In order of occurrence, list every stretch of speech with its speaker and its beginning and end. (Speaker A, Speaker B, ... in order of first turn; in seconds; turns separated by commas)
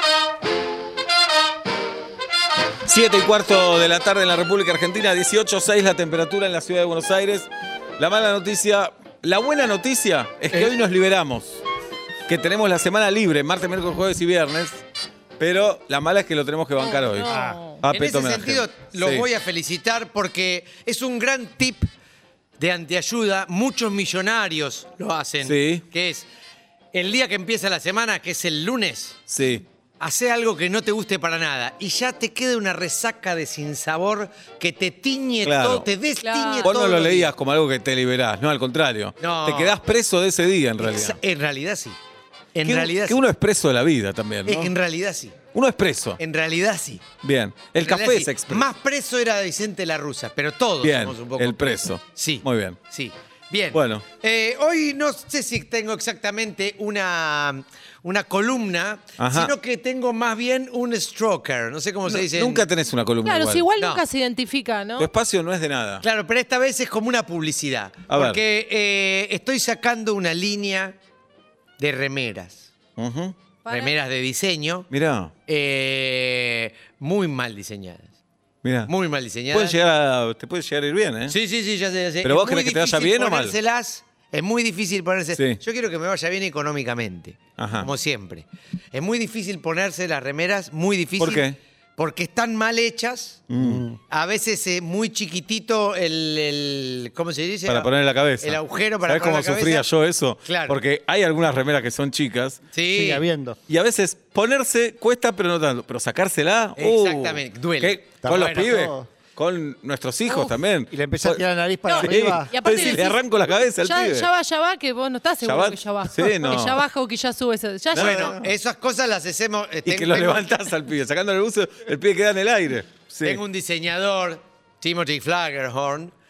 Speaker A: 2.9-11.6, Speaker A: 12.3-14.8, Speaker A: 15.4-19.3, Speaker B: 16.8-17.8, Speaker C: 17.3-17.6, Speaker D: 17.9-21.9, Speaker D: 22.6-26.3, Speaker A: 25.4-25.8, Speaker D: 26.9-29.2, Speaker A: 29.3-29.6, Speaker D: 30.0-37.3, Speaker A: 35.4-35.9, Speaker B: 36.2-36.7, Speaker A: 36.6-41.2, Speaker D: 39.2-39.8, Speaker D: 40.8-42.0, Speaker D: 42.5-43.2, Speaker A: 42.6-44.7, Speaker D: 44.4-45.4, Speaker A: 45.5-46.2, Speaker D: 46.2-47.0, Speaker A: 47.2-48.7, Speaker D: 47.8-62.6, Speaker A: 50.8-52.8, Speaker A: 53.7-54.0, Speaker A: 59.2-59.5, Speaker A: 62.0-63.7, Speaker B: 63.2-65.1, Speaker D: 63.8-64.0, Speaker A: 65.0-66.0, Speaker D: 66.0-71.0, Speaker A: 68.1-68.4, Speaker D: 71.8-72.7, Speaker A: 73.0-73.3, Speaker B: 73.6-73.9, Speaker D: 73.7-74.9, Speaker A: 74.9-75.3, Speaker D: 75.5-78.1, Speaker A: 78.6-78.9, Speaker D: 78.9-79.8, Speaker A: 79.5-81.3, Speaker D: 81.3-93.4, Speaker A: 82.2-83.5, Speaker A: 85.3-85.6, Speaker A: 87.6-87.9, Speaker A: 91.2-91.6, Speaker A: 93.5-93.9, Speaker C: 93.6-94.0, Speaker D: 94.1-99.9, Speaker A: 97.7-102.6, Speaker D: 100.4-100.8, Speaker D: 102.7-103.2, Speaker C: 102.9-103.6, Speaker A: 103.7-114.3, Speaker D: 106.8-108.7, Speaker C: 108.2-109.1, Speaker B: 110.2-110.5, Speaker C: 110.9-112.5, Speaker B: 111.8-118.3, Speaker A: 115.4-116.8, Speaker A: 117.9-118.5, Speaker D: 117.9-120.7, Speaker A: 119.8-123.4, Speaker D: 123.2-126.1